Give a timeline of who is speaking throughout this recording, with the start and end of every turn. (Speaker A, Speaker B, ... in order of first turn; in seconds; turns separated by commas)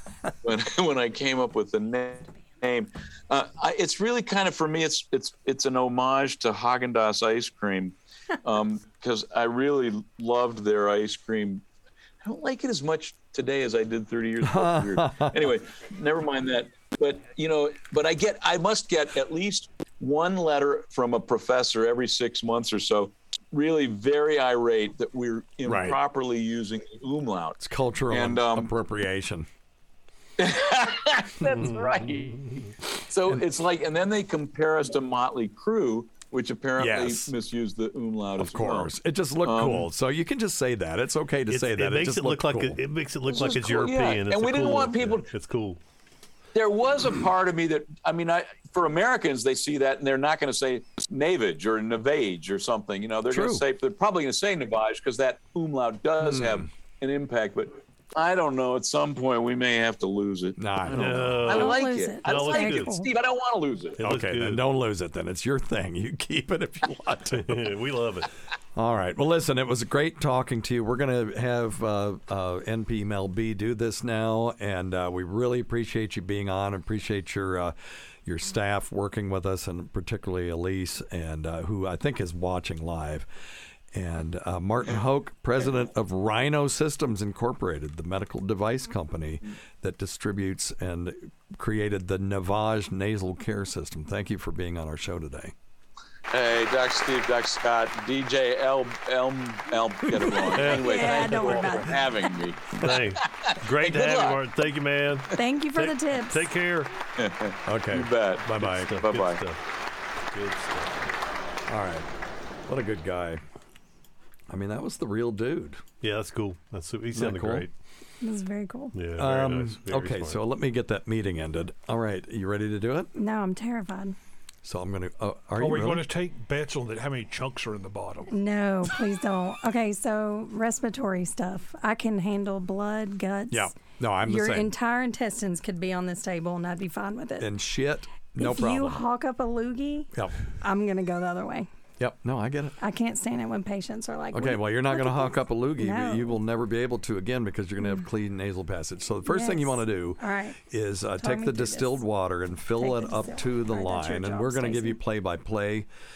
Speaker A: 0.4-11.6, Speaker A: 12.2-27.6, Speaker B: 14.4-15.5, Speaker B: 25.6-26.0, Speaker B: 27.6-29.5, Speaker A: 28.1-28.7, Speaker A: 30.4-39.9, Speaker C: 31.7-31.9, Speaker B: 36.8-37.3, Speaker B: 38.4-42.8, Speaker C: 41.5-45.8, Speaker A: 43.3-45.3, Speaker A: 46.5-64.0, Speaker B: 53.3-53.6, Speaker B: 56.2-56.7, Speaker B: 60.6-61.4, Speaker C: 60.9-63.1, Speaker D: 61.5-63.1, Speaker C: 64.0-64.6, Speaker B: 64.0-67.7, Speaker C: 67.3-68.3, Speaker B: 68.8-83.3, Speaker B: 83.9-95.5, Speaker A: 96.3-104.5, Speaker B: 100.1-100.5, Speaker C: 100.5-102.0, Speaker D: 100.6-102.1, Speaker C: 102.8-106.9, Speaker D: 105.3-106.5, Speaker A: 107.2-109.4, Speaker B: 107.7-108.9, Speaker C: 108.5-109.6, Speaker C: 110.3-111.1, Speaker B: 111.7-112.1, Speaker B: 112.7-113.4, Speaker B: 114.5-115.8, Speaker C: 116.0-117.7, Speaker B: 117.1-117.7, Speaker D: 118.2-118.9, Speaker C: 118.9-120.4, Speaker B: 119.2-123.1, Speaker D: 123.2-124.2, Speaker B: 124.6-126.1, Speaker E: 125.6-128.3, Speaker D: 128.3-133.7, Speaker B: 133.5-134.7, Speaker D: 134.2-137.5, Speaker B: 137.4-139.0, Speaker D: 138.4-141.7, Speaker B: 140.1-140.4, Speaker B: 142.0-142.8, Speaker D: 142.8-146.4, Speaker B: 144.3-155.9, Speaker D: 149.3-150.6, Speaker D: 151.2-152.0, Speaker D: 152.8-155.0